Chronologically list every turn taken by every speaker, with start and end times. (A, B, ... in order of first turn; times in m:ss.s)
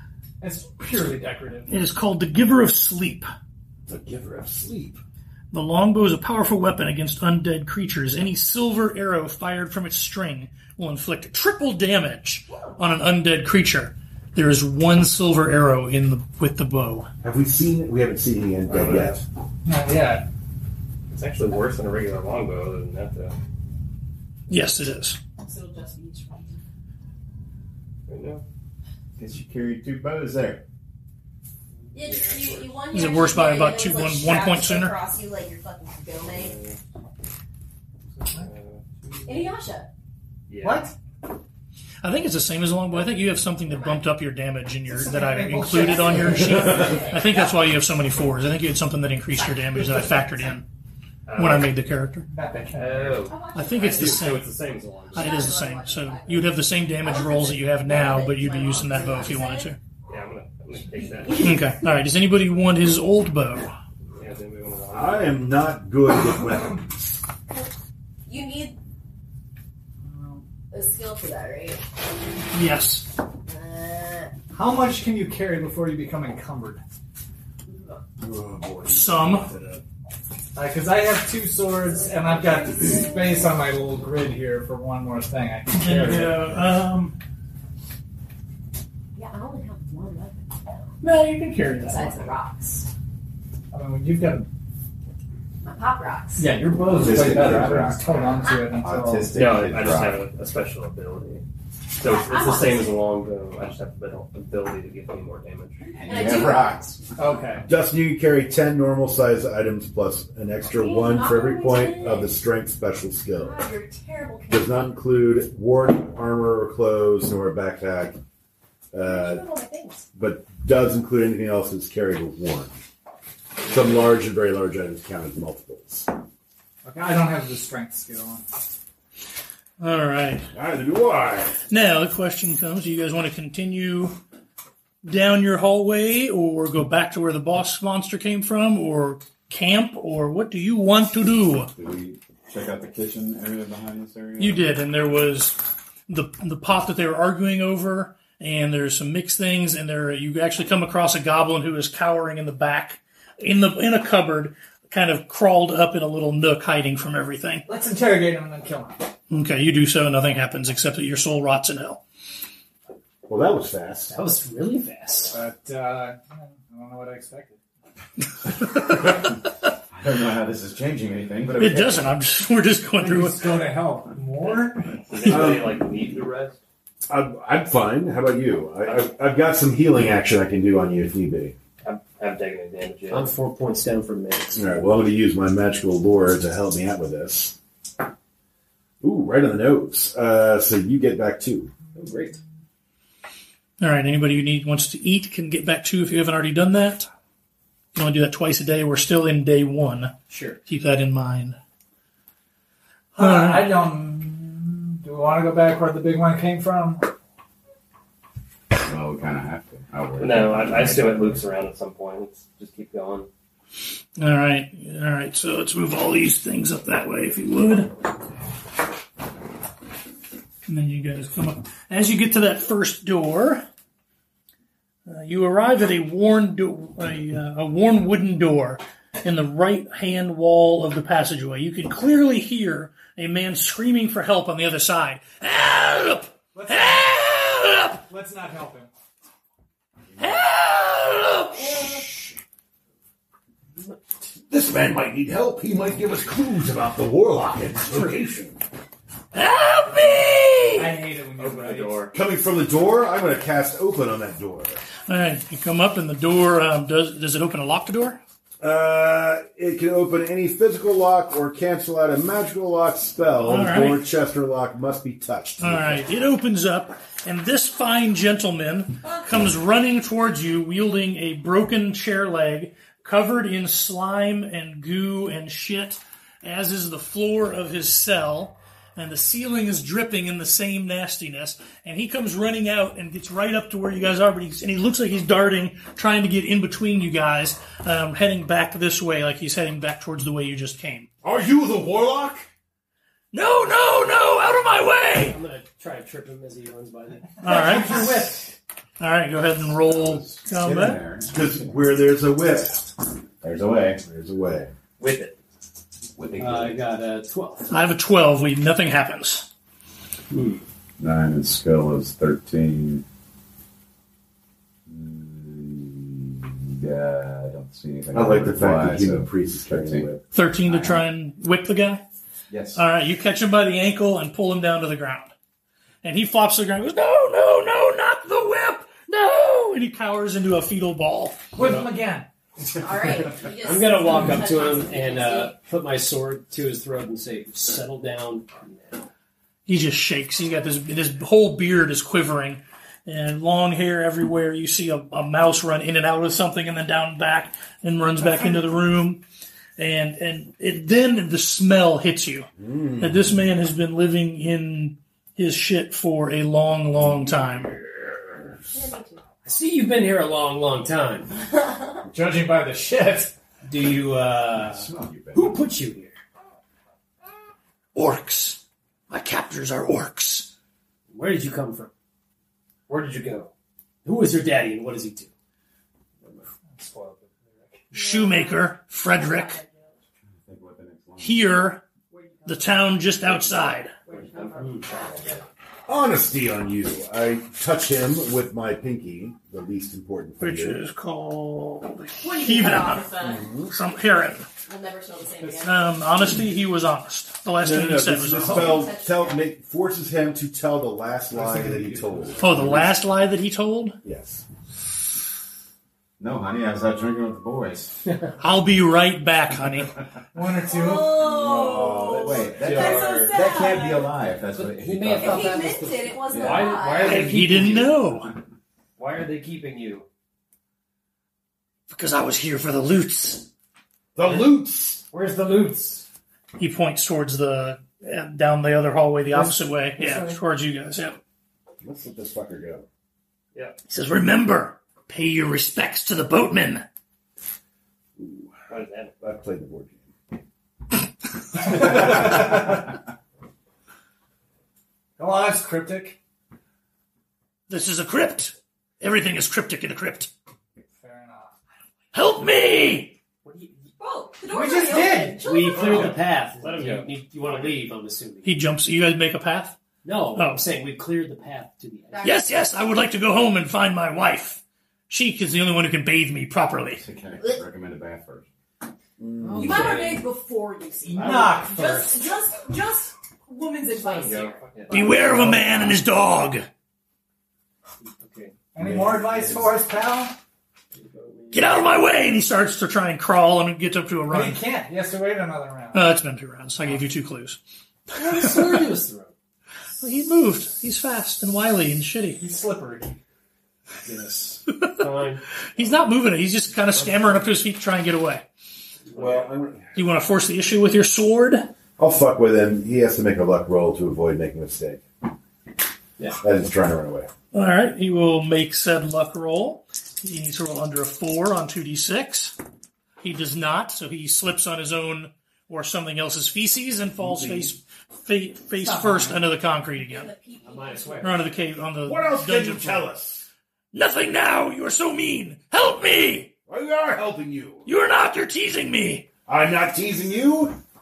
0:00.4-0:01.7 A
0:01.7-0:03.3 B
0:03.9-0:05.0 C
0:05.5-0:17.1 B
0:17.2-0:19.2 C
0:18.7-0:19.2 D
0:19.7-0:20.3 A
0:21.1-0:23.3 D
0:24.5-0:25.2 B
0:25.4-0:26.6 E
0:28.1-0:28.4 D
0:29.2-0:30.6 F
0:31.8-0:32.8 D
0:31.9-0:36.6 E
0:32.9-0:35.0 B
0:36.2-0:36.8 D
0:38.2-0:39.5 D
0:39.3-0:39.9 E
0:40.5-0:40.9 D
0:40.6-0:40.9 A
0:42.0-0:50.7 B
0:43.7-0:44.0 E
0:44.9-0:47.1 A
0:45.7-0:47.6 E
0:51.3-0:51.7 D
0:51.4-0:52.3 B
0:52.3-0:53.3 A
0:52.7-0:55.6 D
0:53.3-0:54.4 E
0:53.5-0:54.5 B
0:55.1-0:59.8 B
0:55.1-0:59.7 E
1:00.1-1:01.5 D
1:00.8-1:01.8 E
1:01.4-1:03.7 B
1:04.2-1:05.5 D
1:04.9-1:07.2 C
1:08.3-1:08.8 E
1:10.0-1:10.4 A
1:10.7-1:11.8 E
1:12.5-1:13.1 B
1:13.5-1:14.4 E
1:14.5-1:16.8 A
1:17.7-1:18.0 E
1:18.2-1:19.8 C
1:18.9-1:19.5 B
1:20.6-1:26.5 A
1:21.9-1:23.6 E
1:25.7-1:27.2 B
1:29.2-1:31.0 E
1:31.0-1:32.1 B
1:31.8-1:32.9 E
1:33.7-1:34.5 A
1:35.6-1:36.5 E
1:36.4-1:39.6 A
1:37.0-1:37.9 C
1:37.1-1:37.9 F
1:38.4-1:38.7 E
1:38.7-1:40.2 F
1:39.3-1:41.4 D
1:42.0-1:45.9 D
1:42.0-1:43.0 E
1:45.8-1:47.0 E
1:46.0-1:47.2 F
1:47.2-1:47.7 A
1:47.6-1:53.6 C
1:50.7-1:52.4 E
1:53.4-1:55.0 E
1:54.5-1:58.2 C
1:58.9-1:59.5 C
1:59.0-2:00.1 E
2:00.1-2:02.8 C
2:03.6-2:06.1 C
2:06.8-2:08.4 A
2:09.8-2:10.5 B
2:10.5-2:11.6 C
2:11.7-2:14.2 B
2:15.0-2:21.7 B
2:21.8-2:24.8 F
2:24.4-2:37.6 B
2:37.7-2:39.1 A
2:39.3-2:42.0 B
2:43.2-2:44.1 C
2:44.1-2:45.4 G
2:45.3-2:47.6 A
2:49.9-2:52.2 F
2:51.6-2:53.5 B
2:53.0-2:55.0 A
2:55.1-2:56.6 D
2:55.3-2:55.8 C
2:57.1-3:01.6 C
3:01.8-3:03.3 D
3:03.1-3:04.9 G
3:04.6-3:07.6 C
3:09.0-3:11.7 C
3:11.9-3:12.4 G
3:13.8-3:17.1 B
3:18.0-3:21.6 B
3:20.3-3:20.6 G
3:23.1-3:27.1 A
3:23.2-3:23.8 B
3:28.8-3:31.1 F
3:30.2-3:33.3 D
3:34.2-3:37.9 B
3:40.7-3:43.7 B
3:45.1-3:58.0 B
3:56.5-3:57.1 A
3:58.0-3:58.9 A
4:00.2-4:01.9 B
4:01.6-4:02.0 E
4:04.5-4:08.6 C
4:09.3-4:11.0 B
4:10.8-4:12.1 A
4:11.4-4:12.1 D
4:12.1-4:14.8 C
4:15.1-4:18.2 B
4:18.6-4:26.1 C
4:23.4-4:24.1 B
4:25.6-4:51.1 B
4:51.2-4:52.5 C
4:53.3-4:55.4 B
4:55.2-4:57.6 G
4:57.4-4:58.4 B
4:57.4-4:58.6 A
4:59.0-5:01.0 B
4:59.8-5:01.8 F
5:01.3-5:02.9 C
5:03.4-5:04.0 F
5:04.0-5:04.7 C
5:05.0-5:05.4 D
5:06.2-5:06.8 F
5:06.4-5:07.8 G
5:07.7-5:09.5 B
5:10.3-5:10.6 G
5:11.0-5:13.0 F
5:14.9-5:21.0 F
5:18.1-5:20.2 C
5:20.3-5:22.0 B
5:22.5-5:22.8 F
5:22.7-5:25.3 B
5:26.0-5:31.5 B
5:31.5-5:32.3 A
5:32.8-5:35.6 E
5:33.6-5:39.1 G
5:39.7-5:49.2 B
5:49.8-5:57.8 B
5:52.6-5:53.3 C
5:57.9-5:58.5 C
5:58.7-5:59.2 E
5:59.4-6:01.3 G
6:01.6-6:02.0 E
6:02.1-6:03.4 A
6:03.6-6:06.2 G
6:04.4-6:05.6 F
6:08.0-6:10.5 B
6:11.1-6:11.9 G
6:12.9-6:13.5 D
6:14.0-6:15.3 G
6:16.8-6:17.8 D
6:17.9-6:19.6 B
6:17.9-6:20.0 E
6:20.4-6:21.7 F
6:21.2-6:21.8 B
6:22.1-6:25.4 E
6:22.5-6:23.9 B
6:24.3-6:25.2 D
6:25.9-6:30.8 C
6:30.4-6:33.1 B
6:32.2-6:33.5 E
6:33.2-6:33.7 C
6:33.7-6:34.5 B
6:34.6-6:35.9 E
6:35.4-6:35.7 A
6:35.6-6:38.9 B
6:37.6-6:43.0 C
6:38.4-6:39.5 E
6:41.3-6:42.6 A
6:42.4-6:44.0 B
6:44.0-6:44.4 C
6:46.2-6:48.0 F
6:48.4-6:50.0 B
6:50.3-6:51.4 A
6:50.7-6:54.1 E
6:51.3-6:55.6 F
6:52.6-6:53.2 G
6:54.5-6:57.9 G
6:55.2-6:57.3 E
6:56.3-6:56.8 F
6:56.7-6:57.1 D
6:57.0-6:58.3 B
6:57.2-6:57.6 A
6:59.0-7:00.1 D
7:01.9-7:03.5 B
7:04.2-7:05.0 C
7:05.1-7:06.0 G
7:06.6-7:11.2 B
7:09.3-7:10.4 G
7:11.8-7:12.9 C
7:13.9-7:16.8 B
7:18.2-7:18.5 C
7:18.7-7:19.1 D
7:19.2-7:20.1 C
7:21.7-7:22.7 A
7:21.8-7:22.3 C
7:25.2-7:26.2 A
7:27.7-7:30.3 B
7:30.9-7:31.6 A
7:32.1-7:33.2 B
7:33.4-7:33.9 G
7:34.0-7:36.2 E
7:34.5-7:35.5 A
7:35.0-7:38.5 G
7:35.8-7:37.8 D
7:38.4-7:39.8 B
7:40.0-7:42.3 G
7:40.4-7:40.6 B
7:42.1-7:42.5 E
7:42.2-7:47.0 B
7:47.0-7:48.5 F
7:49.2-7:49.9 C
7:49.4-7:50.3 G
7:49.6-7:54.6 E
7:51.1-7:52.2 A
7:51.1-7:51.8 G
7:54.2-7:55.2 D
7:54.9-7:56.7 B
7:54.9-7:55.6 G
7:58.0-7:58.5 G
7:58.7-8:00.4 A
7:58.8-7:59.7 C
8:00.9-8:01.9 G
8:01.5-8:04.6 B
8:04.3-8:06.1 A
8:05.9-8:07.6 B
8:08.1-8:09.3 G
8:08.2-8:09.0 B
8:10.0-8:12.4 B
8:12.4-8:13.2 A
8:14.0-8:15.4 G
8:14.8-8:15.0 B
8:15.7-8:18.4 B
8:16.9-8:17.5 G
8:19.1-8:19.9 C
8:19.2-8:19.4 G
8:20.0-8:21.7 B
8:22.0-8:25.0 C
8:26.4-8:27.3 C
8:27.5-8:32.6 B
8:33.2-8:40.3 B
8:37.2-8:37.7 C
8:38.8-8:39.5 A
8:40.0-8:41.4 E
8:40.6-8:41.5 G
8:41.2-8:43.1 B
8:42.0-8:43.5 C
8:43.9-8:46.5 B
8:46.7-8:47.9 C
8:47.9-8:49.3 B
8:49.5-8:50.8 C